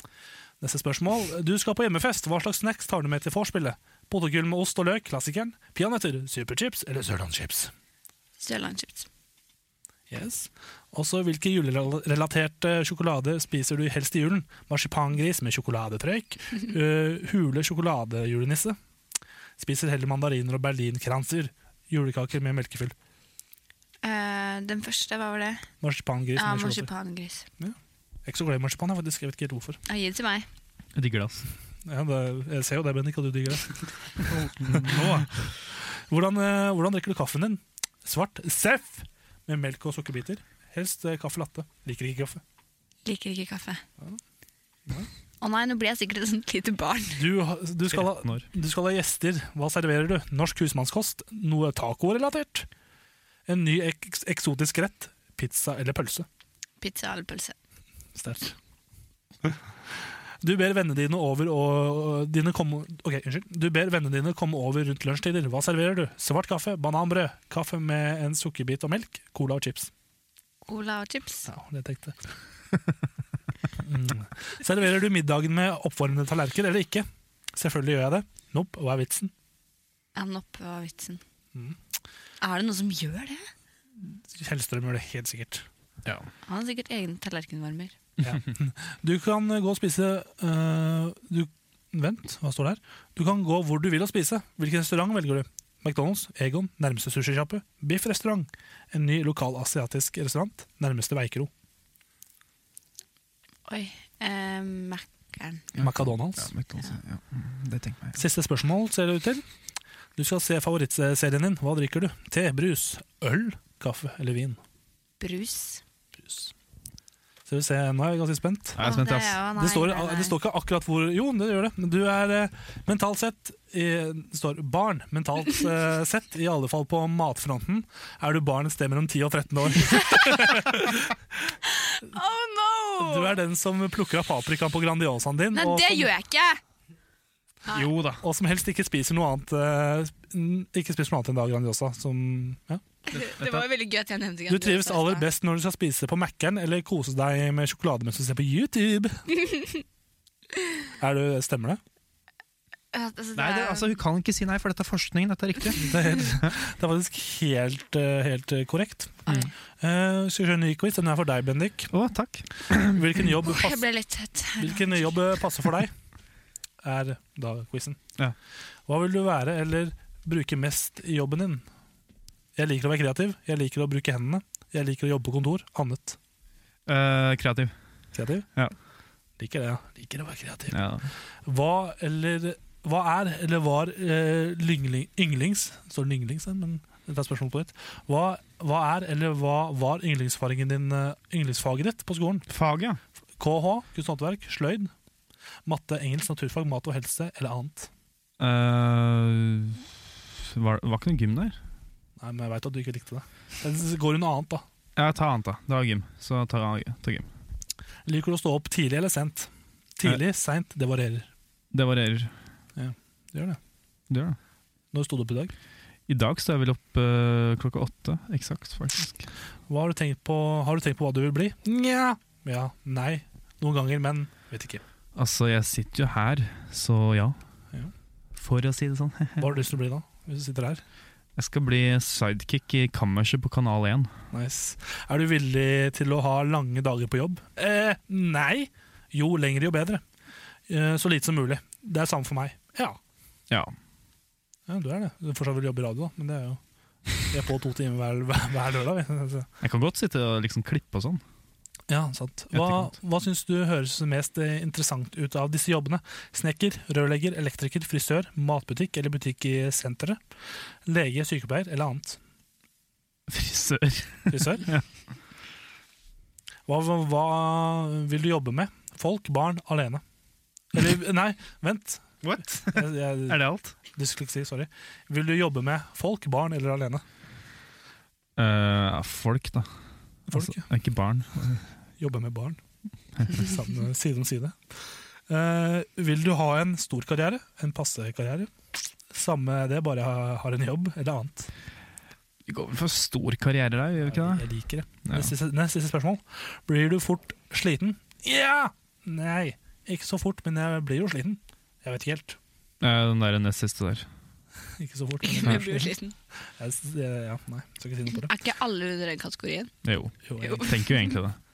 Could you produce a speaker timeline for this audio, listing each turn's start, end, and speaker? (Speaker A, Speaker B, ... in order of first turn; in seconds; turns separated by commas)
Speaker A: 0.6-7.7, Speaker B: 8.4-9.1, Speaker A: 10.1-18.8, Speaker A: 19.6-22.9, Speaker B: 24.0-25.6, Speaker A: 25.8-26.9, Speaker B: 26.4-27.5, Speaker A: 27.6-29.8, Speaker B: 29.9-30.5, Speaker C: 31.0-31.5, Speaker A: 31.9-33.7, Speaker C: 34.3-35.3, Speaker A: 34.7-35.2, Speaker A: 35.8-42.4, Speaker B: 43.0-43.8, Speaker B: 45.4-47.2, Speaker A: 47.1-52.7, Speaker C: 48.0-48.4, Speaker A: 53.5-56.3, Speaker B: 56.8-57.5, Speaker A: 58.1-58.6, Speaker A: 60.4-69.9, Speaker B: 70.7-71.5, Speaker A: 71.5-72.2, Speaker A: 73.8-79.3, Speaker B: 80.2-81.2, Speaker A: 81.5-81.8, Speaker B: 82.4-83.5, Speaker A: 84.0-85.7, Speaker B: 86.5-88.0, Speaker A: 88.2-101.5, Speaker B: 103.7-105.7, Speaker A: 105.8-106.5, Speaker C: 105.8-108.2, Speaker A: 108.2-109.5, Speaker A: 110.2-114.6, Speaker B: 115.2-115.8, Speaker A: 116.2-116.5, Speaker A: 117.5-119.0, Speaker C: 118.8-119.4, Speaker B: 118.8-120.3, Speaker A: 119.6-131.2, Speaker B: 131.7-133.4, Speaker A: 133.0-136.1, Speaker B: 135.5-136.6, Speaker C: 137.7-138.2, Speaker A: 138.2-142.8, Speaker B: 143.1-145.3, Speaker C: 143.3-143.6, Speaker A: 144.5-149.2, Speaker B: 149.5-149.8, Speaker A: 151.0-151.8, Speaker B: 152.9-154.0, Speaker C: 153.3-155.9, Speaker A: 155.8-161.9, Speaker B: 159.3-159.5, Speaker C: 161.9-163.0, Speaker A: 162.8-163.8, Speaker B: 163.5-165.3, Speaker A: 164.6-165.9, Speaker A: 166.8-168.0, Speaker A: 168.9-171.7, Speaker A: 172.6-176.2, Speaker C: 176.9-177.7, Speaker A: 178.1-178.5, Speaker A: 179.4-180.8, Speaker C: 180.7-181.1, Speaker A: 181.4-192.5, Speaker C: 192.5-193.0, Speaker A: 193.4-194.9, Speaker A: 195.7-197.9, Speaker C: 198.4-201.6, Speaker A: 202.2-204.7, Speaker C: 205.0-207.3, Speaker A: 208.1-211.3, Speaker C: 211.7-212.3, Speaker A: 212.8-213.6, Speaker C: 214.1-214.4, Speaker A: 214.9-215.5, Speaker C: 216.1-219.3, Speaker A: 219.7-224.8, Speaker C: 225.2-227.4, Speaker C: 228.4-229.5, Speaker A: 229.4-230.8, Speaker C: 231.4-234.1, Speaker A: 234.3-240.0, Speaker A: 240.7-243.0, Speaker A: 244.7-246.6, Speaker A: 247.2-249.5, Speaker C: 249.6-251.2, Speaker A: 251.9-260.2, Speaker C: 252.5-252.9, Speaker A: 260.9-262.2, Speaker C: 263.3-264.8, Speaker A: 264.3-264.7, Speaker A: 266.7-270.0, Speaker A: 270.7-277.0, Speaker C: 272.2-273.8, Speaker C: 278.4-279.7, Speaker C: 280.3-281.6, Speaker A: 280.3-280.6, Speaker A: 282.0-282.6, Speaker A: 283.3-288.5, Speaker A: 289.1-291.5, Speaker C: 292.5-294.5, Speaker A: 294.0-302.4, Speaker C: 295.0-295.3, Speaker C: 302.8-304.1, Speaker A: 304.8-305.9, Speaker B: 305.2-306.1, Speaker A: 306.6-308.3, Speaker B: 308.1-309.7, Speaker C: 309.9-311.4, Speaker A: 310.3-310.7, Speaker B: 310.4-311.2